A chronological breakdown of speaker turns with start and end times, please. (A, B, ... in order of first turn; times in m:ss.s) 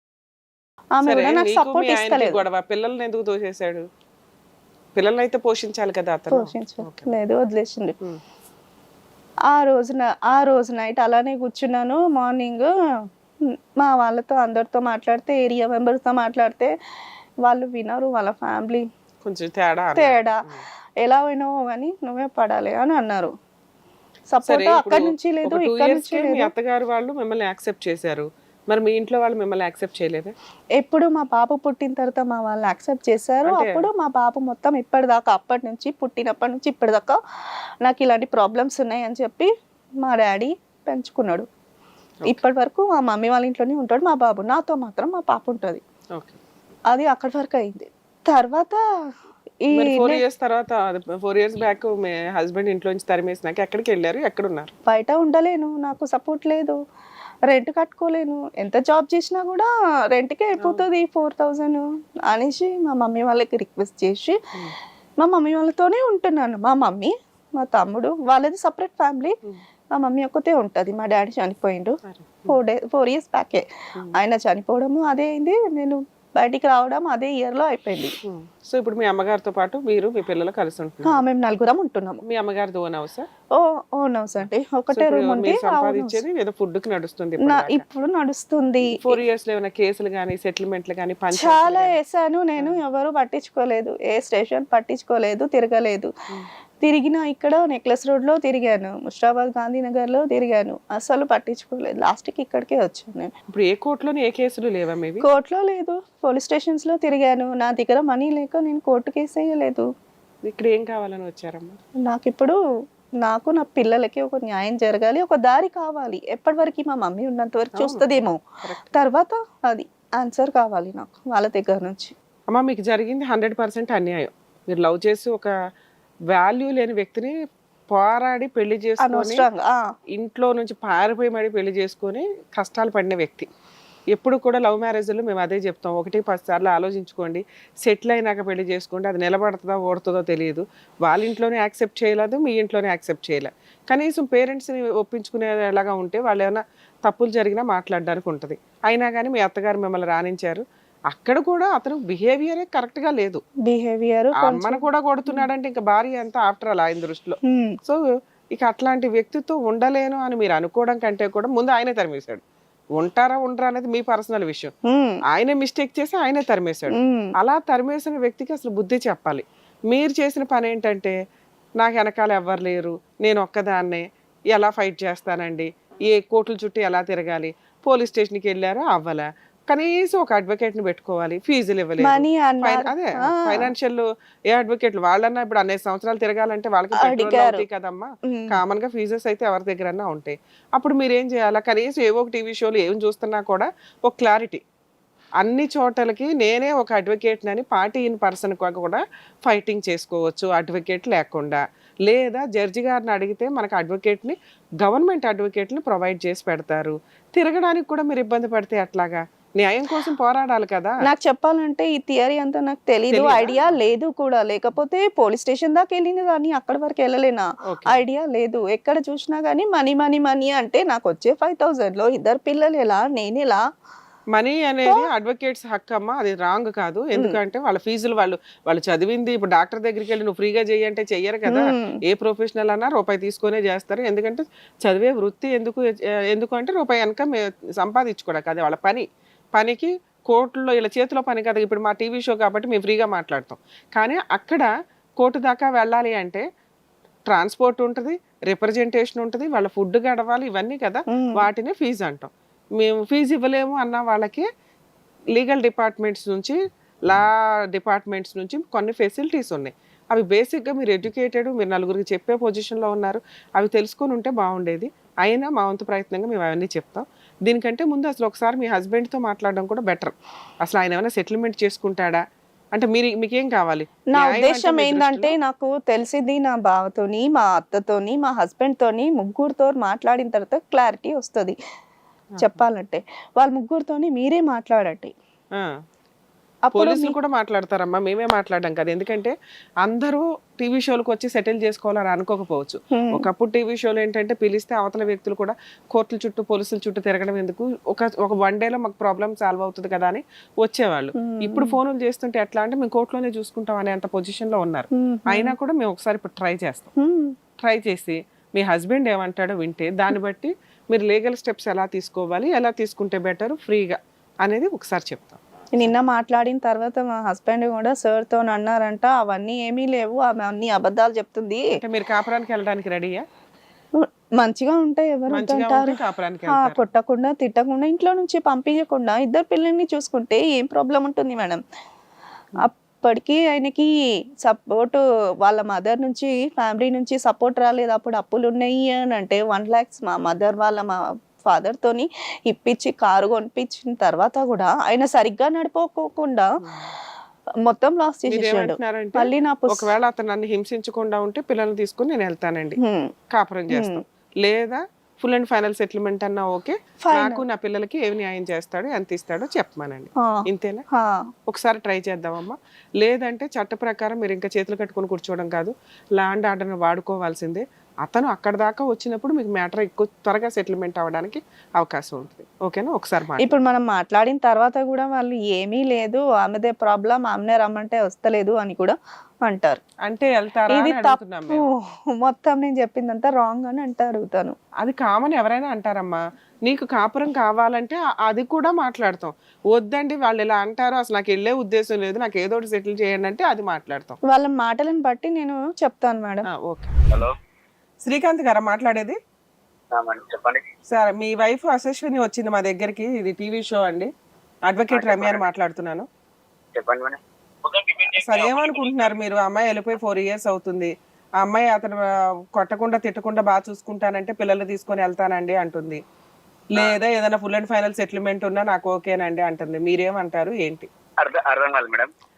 0:01.0-0:02.4 A
0:01.0-0:03.9 B
0:05.0-0:07.1 B
0:06.3-0:08.0 A
0:09.5-0:12.7 A
0:13.8-0:16.7 A
0:17.4-0:18.9 A
0:19.2-0:20.6 B
0:20.0-0:20.4 A
0:21.0-0:23.3 A
0:24.3-0:26.5 A
0:24.4-0:30.3 B
0:30.8-0:37.2 A
0:33.4-0:33.9 B
0:37.8-0:39.5 A
0:40.0-0:41.5 A
0:42.2-0:45.8 A
0:46.9-0:48.8 A
0:49.7-0:50.2 A
0:49.7-0:54.7 B
0:54.9-0:56.8 A
0:57.5-1:04.4 A
1:00.6-1:00.9 B
1:05.2-1:09.4 A
1:10.0-1:18.2 A
1:12.1-1:12.6 B
1:18.2-1:21.2 B
1:21.0-1:22.2 A
1:22.2-1:23.3 B
1:23.6-1:26.2 A
1:24.4-1:27.8 B
1:27.4-1:29.2 A
1:28.9-1:32.0 B
1:31.3-1:36.1 A
1:36.8-1:43.3 A
1:43.5-1:45.2 B
1:45.2-1:49.9 A
1:50.4-1:51.8 B
1:52.0-1:52.6 A
1:53.2-1:58.4 A
1:57.8-1:58.9 B
1:58.9-2:02.1 A
2:02.5-2:05.5 B
2:06.3-2:07.3 B
2:07.9-2:09.4 B
2:09.0-2:09.8 A
2:10.1-2:13.5 B
2:14.1-2:33.4 B
2:33.6-2:35.4 A
2:34.4-2:38.0 B
2:37.4-2:37.8 A
2:38.5-2:42.4 B
2:42.9-2:44.7 B
2:44.9-2:45.2 A
2:45.3-2:51.2 B
2:46.9-2:47.3 A
2:51.8-3:14.6 B
3:02.0-3:03.7 A
3:07.0-3:07.7 A
3:08.2-3:08.6 A
3:15.4-3:31.0 B
3:31.0-3:43.6 A
3:33.1-3:33.8 B
3:37.6-3:38.0 B
3:44.3-3:59.0 B
3:51.5-3:52.0 A
3:59.6-4:04.7 B
4:05.2-4:06.4 B
4:07.3-4:14.4 B
4:11.1-4:11.5 A
4:15.3-4:32.2 B
4:32.7-4:35.4 B
4:34.1-4:41.6 A
4:42.4-4:42.6 B
4:42.4-4:45.1 A
4:46.6-4:47.2 A
4:46.7-5:06.9 B
4:52.9-4:53.2 A
5:01.2-5:01.8 A
5:04.9-5:05.5 A
5:07.0-5:07.3 A
5:07.6-5:15.9 B
5:15.8-5:21.6 A
5:21.7-5:23.2 B
5:24.0-5:31.6 A
5:25.3-5:26.8 B
5:32.6-5:33.9 A
5:34.4-5:46.5 A
5:46.6-5:46.9 B
5:47.6-5:49.9 A
5:48.3-5:52.8 B
5:52.8-5:53.1 A
5:53.3-6:00.8 B
5:53.7-5:54.0 A
5:57.0-5:57.4 A
6:00.9-6:01.2 A
6:01.5-6:13.6 B
6:13.4-6:19.8 A
6:20.0-6:21.7 B
6:20.7-6:24.6 A
6:24.8-6:34.2 B
6:34.3-6:36.5 A
6:36.5-6:37.0 B
6:38.0-6:39.2 B
6:39.9-6:40.6 C
6:40.9-6:44.1 B
6:44.7-6:46.1 B
6:44.9-6:45.4 C
6:46.7-6:49.1 C
6:48.2-6:56.0 B
6:56.7-7:00.9 B
7:01.2-7:02.1 C